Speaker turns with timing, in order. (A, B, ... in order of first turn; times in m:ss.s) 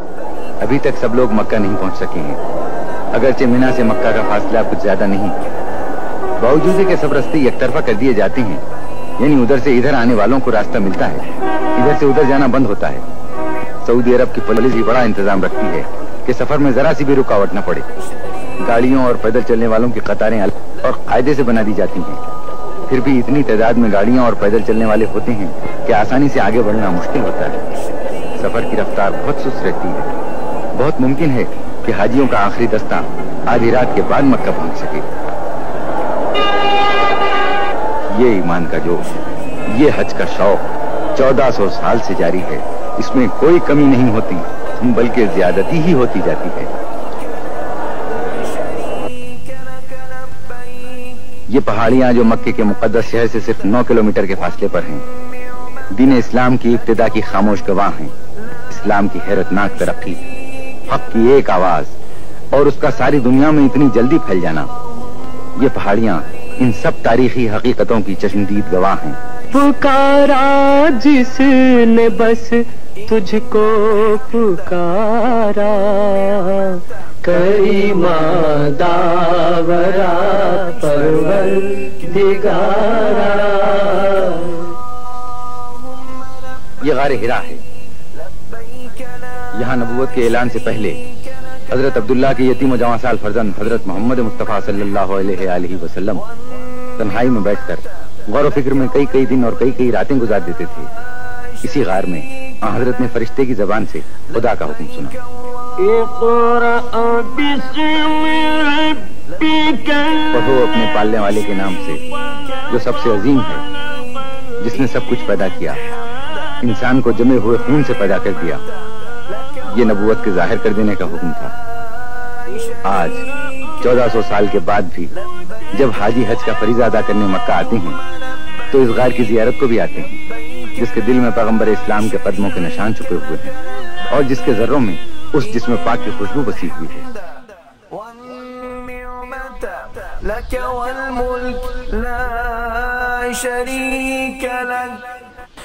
0:00.6-0:02.4 A
0:03.1-0:05.4 A
0:06.4-0:08.6 A
0:09.2-0:11.2 A
0:11.8-0:13.0 A
0:13.8-0:17.9 A
0:18.6-0:22.2 A
0:22.9-0:27.6 A
0:28.4-0:30.1 A
0:30.8-0:35.1 A
0:38.1-0:39.1 A
0:39.7-0:46.7 A
0:48.6-0:49.4 B
0:51.5-0:55.0 A
0:55.9-0:58.1 A
0:58.7-1:00.2 A
1:00.9-1:02.0 A
1:02.5-1:04.7 A
1:05.6-1:09.2 A
1:09.5-1:24.7 C
1:26.8-1:27.6 A
1:29.5-1:31.0 A
1:31.7-1:36.2 A
1:37.0-1:40.9 A
1:41.6-1:45.2 A
1:45.8-1:50.4 C
1:50.3-1:52.1 A
1:52.7-1:53.6 A
1:54.6-1:55.8 A
1:56.6-1:58.7 A
1:59.6-2:01.5 A
2:02.8-2:05.1 A
2:05.7-2:08.0 A
2:08.7-2:10.2 A
2:10.8-2:13.5 A
2:14.1-2:17.1 A
2:18.2-2:25.2 B